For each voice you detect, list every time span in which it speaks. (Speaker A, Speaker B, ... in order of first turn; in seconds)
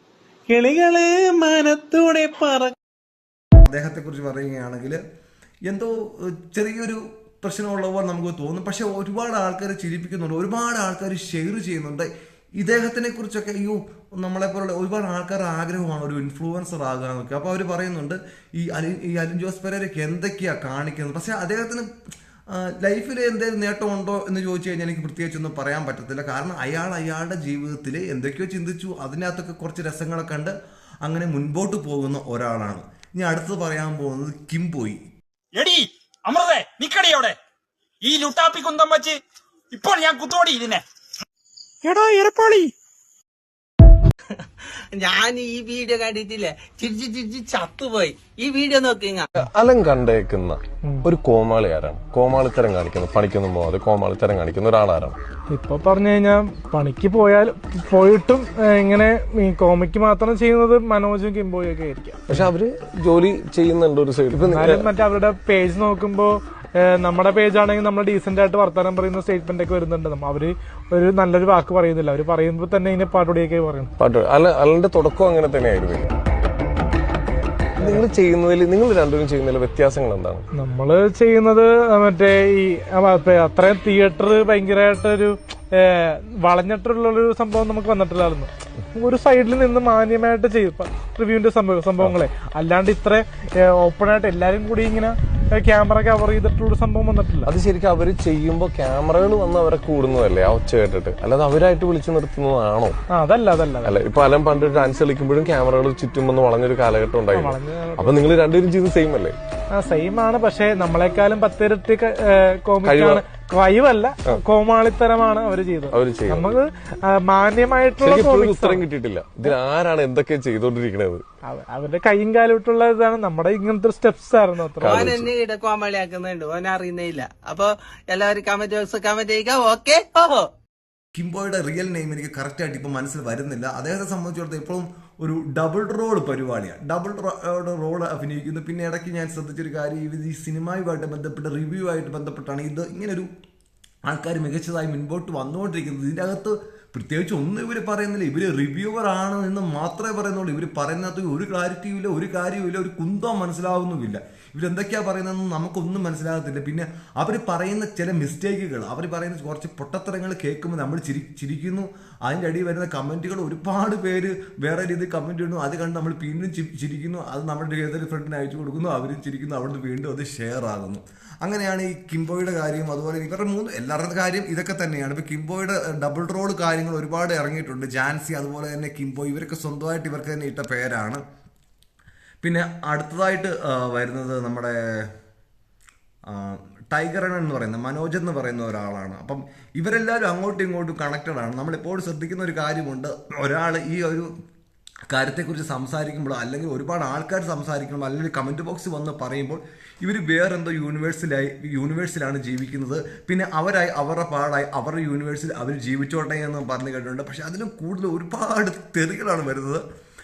Speaker A: 0.5-2.7
Speaker B: 3.6-5.0, 5.7-21.9, 22.5-35.0, 131.2-143.3, 144.1-181.2, 182.4-184.8, 186.3-194.3, 195.1-209.8
Speaker C: 35.5-37.4, 38.0-40.8, 41.8-42.7
Speaker D: 44.9-49.3, 124.9-130.5
Speaker E: 49.4-55.2, 62.3-64.8, 74.0-76.1, 77.8-80.5, 97.5-103.0, 103.8-109.4, 112.8-113.2, 115.9-116.6, 118.0-121.2, 124.8-125.3
Speaker F: 55.5-62.5, 64.4-73.9, 80.5-97.5, 103.1-104.0, 107.3-108.2, 109.8-118.8, 121.5-124.9